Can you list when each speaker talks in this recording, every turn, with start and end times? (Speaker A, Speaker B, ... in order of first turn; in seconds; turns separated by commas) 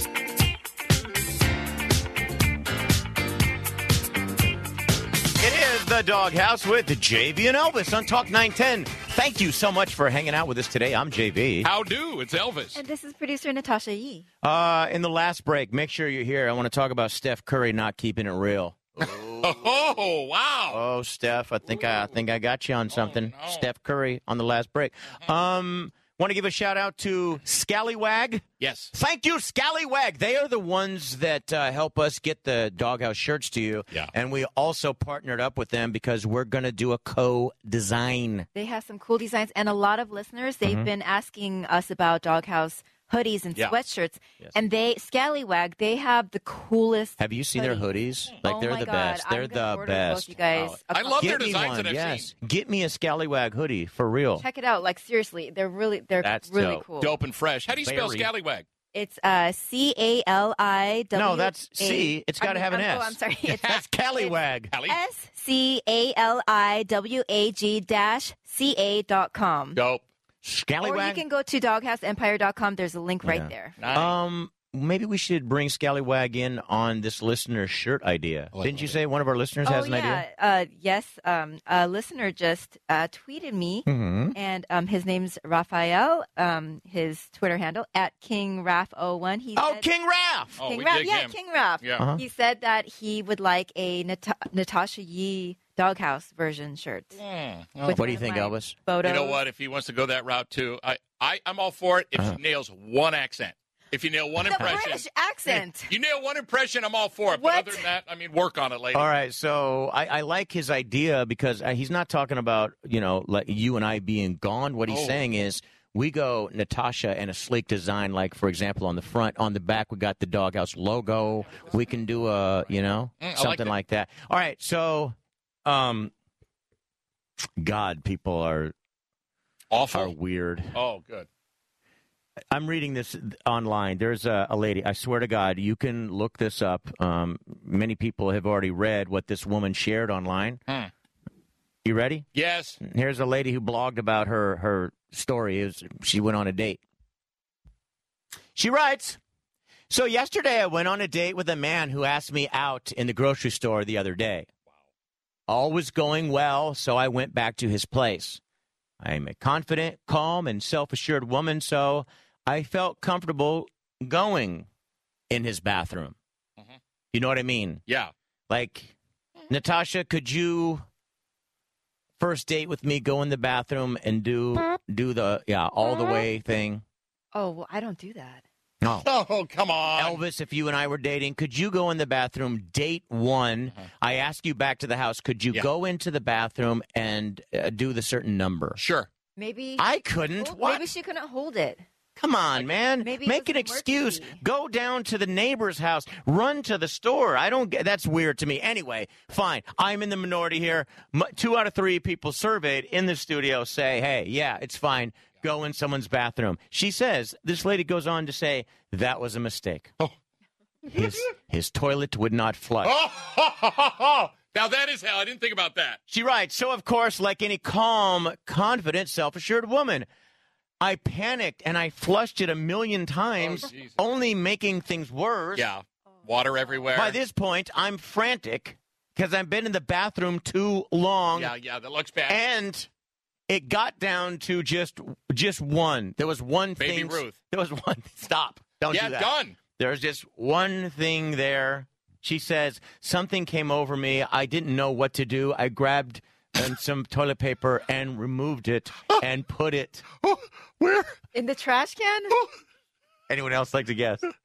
Speaker A: 5.4-11.7, Speaker B: 11.6-12.8, Speaker C: 12.7-14.2, Speaker A: 14.4-19.7, Speaker B: 19.0-20.8, Speaker A: 20.7-38.5, Speaker B: 22.9-23.6, Speaker B: 28.6-28.9, Speaker C: 38.5-47.9, Speaker A: 47.2-54.4, Speaker C: 48.4-51.6, Speaker B: 50.9-52.3, Speaker C: 54.4-57.1, Speaker A: 56.2-56.8, Speaker B: 57.0-58.6, Speaker A: 57.8-58.3, Speaker C: 58.9-69.8, Speaker A: 61.1-64.7, Speaker B: 64.7-65.0, Speaker B: 69.8-70.0, Speaker A: 70.4-71.2, Speaker C: 70.8-73.7, Speaker A: 73.2-80.2, Speaker B: 73.8-74.1, Speaker B: 78.5-78.9, Speaker C: 79.6-89.8, Speaker A: 83.8-84.3, Speaker A: 89.5-90.6, Speaker B: 90.6-92.0, Speaker C: 90.6-97.2, Speaker A: 92.0-92.2, Speaker B: 97.2-98.0, Speaker C: 97.8-99.4, Speaker A: 97.9-98.8, Speaker B: 99.0-109.1, Speaker C: 104.4-105.9, Speaker A: 104.6-104.8, Speaker C: 107.3-107.8, Speaker A: 108.9-126.1, Speaker B: 114.9-115.2, Speaker B: 123.2-123.7, Speaker A: 127.6-128.7, Speaker B: 129.7-130.1, Speaker A: 129.9-130.8, Speaker B: 130.7-131.3, Speaker A: 132.5-140.6, Speaker A: 141.8-142.3, Speaker B: 142.3-142.8, Speaker A: 142.8-146.8, Speaker A: 148.5-149.2, Speaker A: 149.9-154.5, Speaker A: 155.5-158.4, Speaker A: 159.0-164.7, Speaker A: 165.3-166.2, Speaker A: 167.1-167.8, Speaker A: 168.5-168.9, Speaker A: 169.5-170.8, Speaker A: 172.2-176.8, Speaker C: 177.3-178.4, Speaker A: 178.8-179.1, Speaker B: 179.0-180.2, Speaker A: 179.9-188.8, Speaker B: 188.8-189.1, Speaker C: 189.3-189.8, Speaker A: 189.8-190.8, Speaker C: 190.4-191.8, Speaker A: 192.2-209.9, Speaker C: 193.0-194.4, Speaker A: 210.9-213.0, Speaker B: 212.8-216.0, Speaker A: 216.1-220.1, Speaker A: 220.8-225.7, Speaker B: 223.4-223.9, Speaker B: 225.6-227.2, Speaker A: 226.9-231.5, Speaker B: 231.3-232.4, Speaker A: 232.3-232.9, Speaker A: 233.5-250.0, Speaker B: 236.8-237.3, Speaker B: 238.9-239.6, Speaker B: 250.2-251.1, Speaker C: 251.3-252.3, Speaker A: 253.3-254.2